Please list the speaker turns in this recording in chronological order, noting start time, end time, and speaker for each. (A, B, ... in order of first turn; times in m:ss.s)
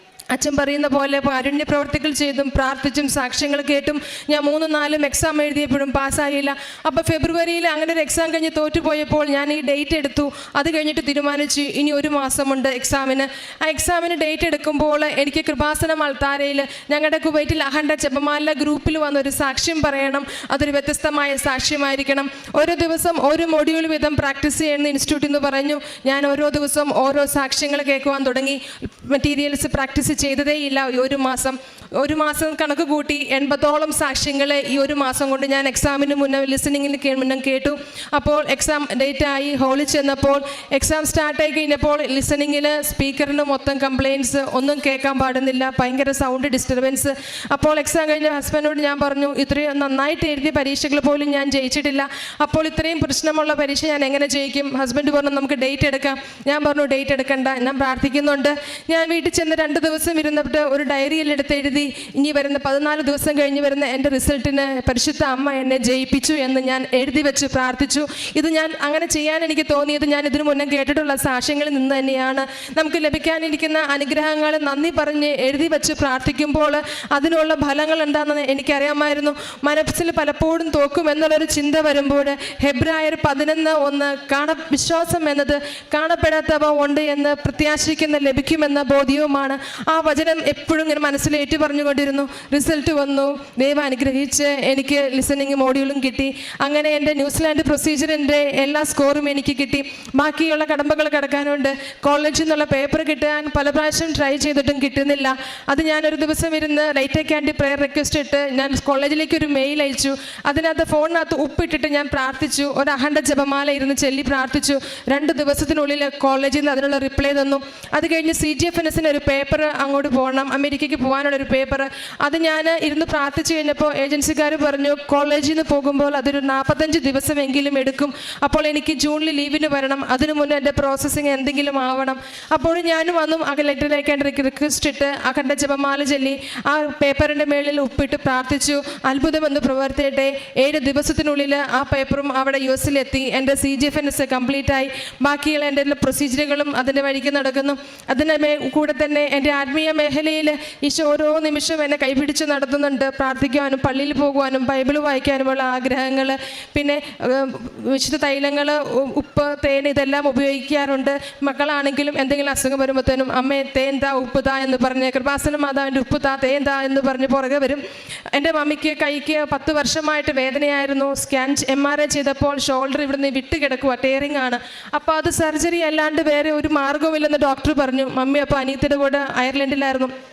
0:00.3-2:47.8 A
2:48.3-3:00.1 A